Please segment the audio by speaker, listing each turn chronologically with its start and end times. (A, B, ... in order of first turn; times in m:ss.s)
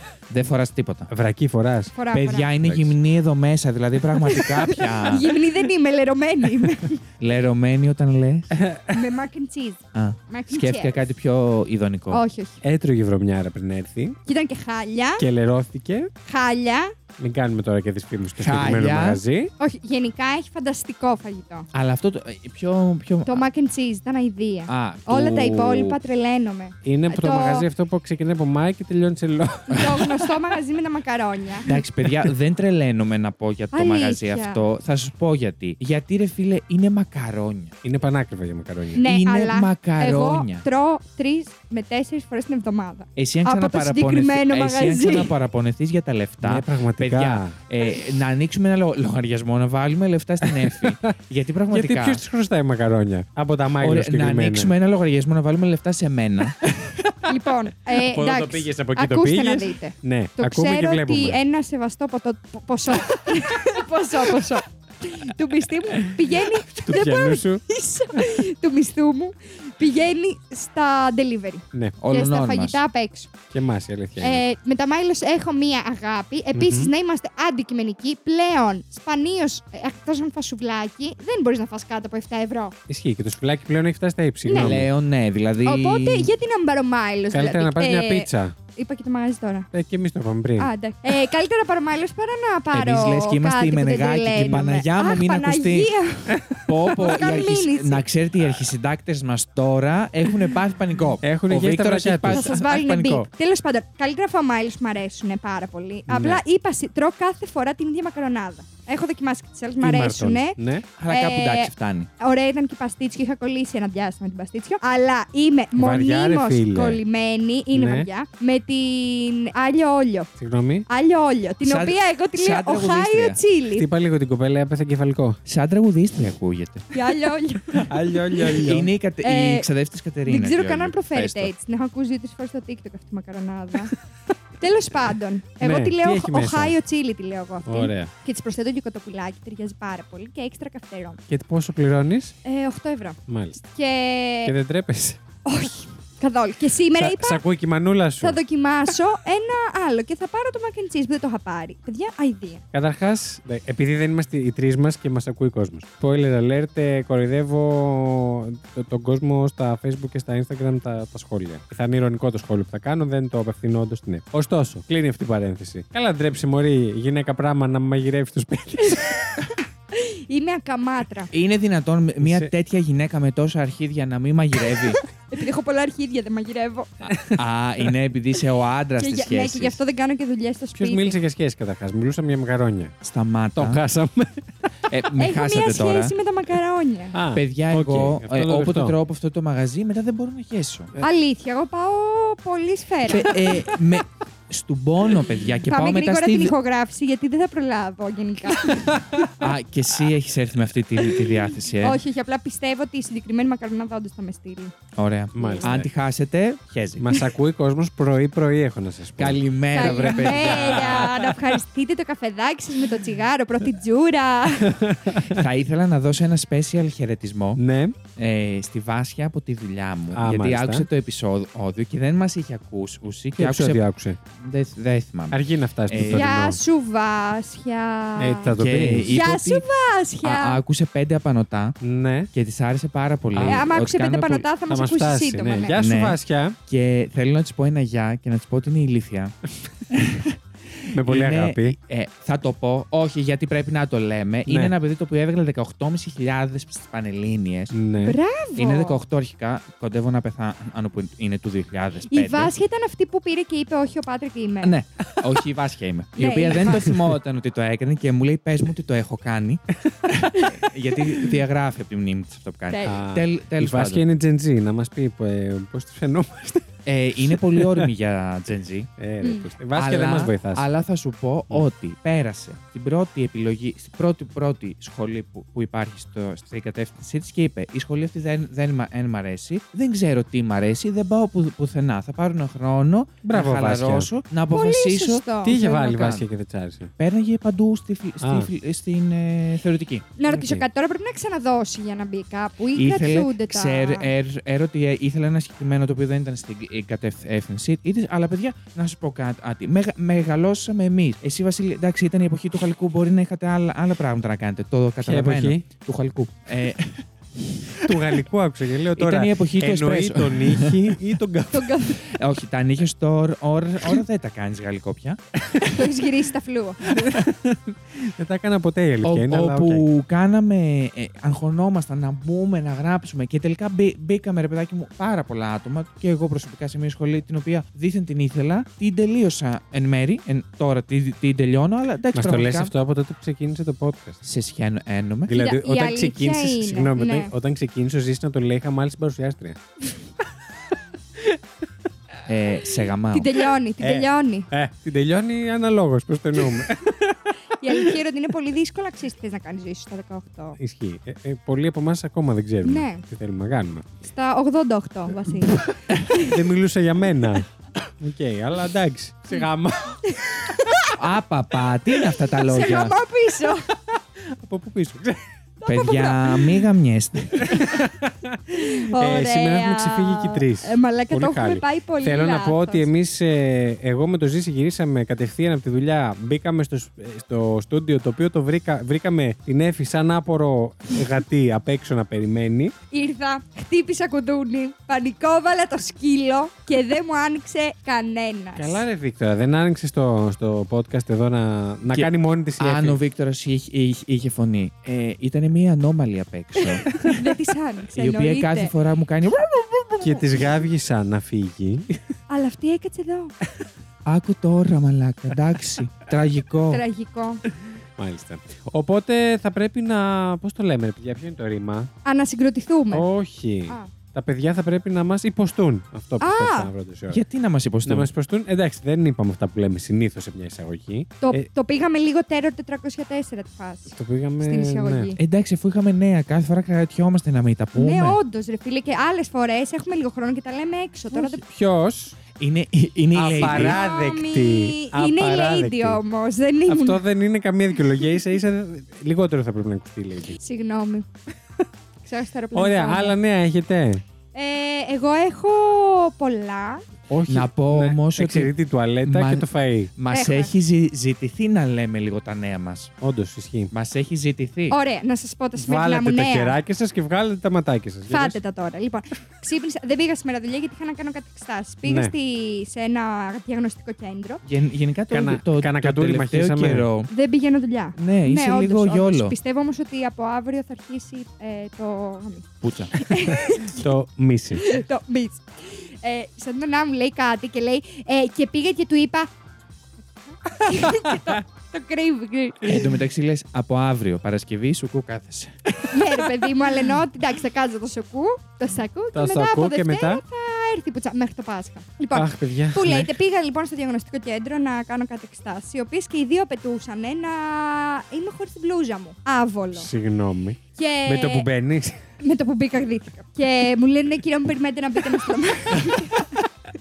0:00.3-0:01.1 A
0:01.1-0:02.0 B
0:01.9-0:02.5 C
0:02.1-0:05.3 A
0:02.6-0:02.9 B
0:04.2-0:07.0 C
0:07.2-0:08.6 A
0:08.5-0:09.1 B
0:08.9-0:11.0 C
0:09.9-0:12.2 A
0:12.1-0:12.6 C
0:12.6-0:14.2 B
0:14.3-0:15.3 C
0:15.2-0:16.1 B
0:16.2-0:17.0 C
0:17.2-0:19.5 B
0:18.4-0:19.2 A
0:19.6-0:21.7 C
0:21.7-0:23.4 A
0:23.2-0:27.7 C
0:24.7-0:26.0 A
0:26.8-0:30.4 B
0:29.7-0:31.7 C
0:31.7-0:37.8 A
0:33.7-0:34.7 C
0:37.8-0:39.0 B
0:39.0-0:45.3 C
0:39.0-0:40.7 A
0:43.2-0:52.2 A
0:46.4-0:47.6 B
0:50.4-0:51.2 B
0:51.7-0:54.7 B
0:53.8-0:56.6 A
0:56.6-0:57.2 B
0:57.2-1:13.3 C
0:58.0-1:01.4 B
1:05.9-1:07.6 B
1:12.0-1:12.8 A
1:13.5-1:14.4 B
1:14.2-1:22.8 C
1:16.6-1:16.9 B
1:22.9-1:24.9 B
1:24.4-1:24.8 C
1:24.5-1:26.3 A
1:25.6-1:29.7 C
1:27.3-1:28.6 B
1:29.7-1:30.7 B
1:30.6-1:38.0 C
1:32.7-1:35.9 A
1:34.4-1:34.6 B
1:36.3-1:37.0 B
1:36.7-1:43.3 A
1:41.2-1:42.6 B
1:42.3-1:50.6 C
1:46.1-1:46.4 B
1:49.8-1:50.9 B
1:51.0-1:52.1 A
1:51.1-2:00.3 C
1:55.8-1:57.0 B
1:57.7-1:58.1 B
2:00.4-2:00.9 B
2:00.9-2:03.9 C
2:01.6-2:03.4 A
2:03.7-2:05.4 B
2:05.5-2:06.9 A
2:06.9-2:08.6 C
2:07.9-2:08.9 B
2:08.4-2:11.2 A
2:09.2-2:09.7 C
2:10.3-2:13.9 C
2:11.2-2:11.5 B
2:14.6-2:21.2 C
2:15.6-2:16.8 B
2:17.7-2:18.1 B
2:21.3-2:22.4 B
2:22.4-2:23.2 C
2:23.3-2:23.6 B
2:23.7-2:24.6 C
2:24.4-2:25.2 B
2:25.5-2:27.4 C
2:27.0-2:28.4 B
2:28.2-2:32.6 C
2:32.7-2:49.2 B
2:48.8-2:51.3 C
2:51.3-2:55.0 A
2:52.2-2:52.5 B
2:55.2-2:57.1 C
2:57.2-2:59.8 A
2:59.0-3:01.2 C
3:00.8-3:02.9 B
3:03.0-3:03.8 A
3:03.6-3:04.5 B
3:04.9-3:06.2 A
3:05.2-3:07.2 C
3:07.1-3:09.0 B
3:07.3-3:10.9 A
3:11.0-3:13.8 C
3:13.0-3:16.5 A
3:15.7-3:19.0 C
3:18.7-3:19.4 B
3:19.4-3:22.0 A
3:21.8-3:24.7 C
3:25.0-3:27.1 A
3:25.4-3:25.7 C
3:25.4-3:25.9 B
3:27.0-3:31.6 B
3:29.2-3:31.1 A
3:29.7-3:34.8 C
3:34.7-3:35.4 B
3:35.2-3:37.6 A
3:37.6-3:38.0 B
3:38.2-3:43.8 A
3:40.1-3:40.9 B
3:43.4-3:44.2 B
3:44.4-3:46.3 A
3:45.3-3:46.6 B
3:46.0-3:50.6 C
3:48.2-3:49.2 B
3:48.5-3:49.6 A
3:50.2-3:51.8 A
3:51.8-3:52.3 B
3:52.3-3:54.4 A
3:53.4-3:53.6 B
3:53.4-3:55.8 C
3:54.7-3:56.6 B
3:55.7-3:59.3 A
3:59.9-4:07.7 A
4:00.9-4:01.8 B
4:04.5-4:04.7 B
4:07.7-4:08.2 B
4:08.0-4:09.0 C
4:08.6-4:12.5 A
4:12.1-4:14.8 C
4:14.6-4:19.6 A
4:16.2-4:16.9 C
4:20.4-4:24.0 A
4:22.7-4:23.0 C
4:22.8-4:26.6 B
4:26.9-4:28.9 A
4:27.2-4:27.9 B
4:29.0-4:30.6 B
4:29.2-4:29.5 C
4:29.7-4:45.2 A
4:43.2-4:44.1 B
4:44.5-4:46.2 C
4:45.4-4:46.9 B
4:47.0-4:50.1 A
4:48.2-4:48.5 B
4:50.2-4:54.1 C
4:50.3-4:50.6 B
4:52.7-5:07.0 A
5:05.0-5:05.6 B
5:07.7-5:08.2 A
5:07.7-5:11.8 B
5:09.0-5:11.0 A
5:11.5-5:12.0 C
5:12.0-5:15.2 A
5:15.7-5:17.2 C
5:16.9-5:19.8 B
5:19.0-5:32.7 A
5:32.1-5:34.2 B
5:34.2-5:35.4 A
5:35.3-5:39.6 B
5:35.3-5:37.3 C
5:42.3-5:43.3 A
5:43.1-5:44.5 C
5:43.8-5:48.0 B
5:47.6-5:50.6 C
5:50.6-5:53.8 B
5:52.6-5:53.0 C
5:54.0-5:56.4 C
5:55.5-6:00.8 B
6:00.0-6:01.0 C
6:01.0-6:03.0 A
6:02.3-6:03.7 C
6:03.7-6:05.2 B
6:05.6-6:06.6 C
6:05.7-6:07.6 A
6:07.4-6:22.7 B
6:07.5-6:07.9 C
6:08.5-6:12.9 C
6:22.9-6:28.8 C
6:28.6-6:33.0 B
6:31.9-6:37.0 A
6:36.6-6:38.7 C
6:36.9-6:37.2 B
6:38.0-6:40.1 A
6:40.0-6:42.0 B
6:42.3-6:43.3 C
6:44.0-6:46.8 A
6:46.7-6:47.4 C
6:48.0-6:51.9 B
6:52.0-6:53.1 C
6:52.9-6:57.2 B
6:56.2-6:56.7 C
6:57.1-6:58.1 A
6:57.9-7:01.5 B
7:01.2-7:05.2 C
7:03.9-7:05.1 B
7:05.2-7:08.2 A
7:07.8-7:11.4 C
7:11.1-7:12.2 B
7:12.4-7:13.8 A
7:13.1-7:16.0 B
7:13.4-7:17.0 C
7:16.7-7:20.4 B
7:20.4-7:21.1 C
7:22.0-7:23.2 C
7:22.5-7:24.0 B
7:24.3-7:26.8 C
7:27.1-7:29.9 B
7:27.3-7:32.9 A
7:30.1-7:30.5 C
7:33.0-7:33.7 B
7:33.7-7:34.8 A
7:34.7-7:36.6 C
7:35.6-7:38.4 B
7:38.1-7:44.4 C
7:41.8-7:42.1 B
7:44.4-7:47.1 A
7:45.1-7:46.9 B
7:47.1-7:53.9 C
7:48.0-7:49.4 A
7:52.6-7:52.9 A
7:53.4-7:54.7 B
7:54.6-7:59.3 C
8:00.3-8:02.9 C
8:00.7-8:01.4 B
8:02.6-8:06.1 A
8:05.9-8:19.9 C
8:09.1-8:10.2 B
8:12.1-8:13.1 B
8:19.7-8:22.0 B
8:20.8-8:21.5 C
8:22.2-8:26.4 C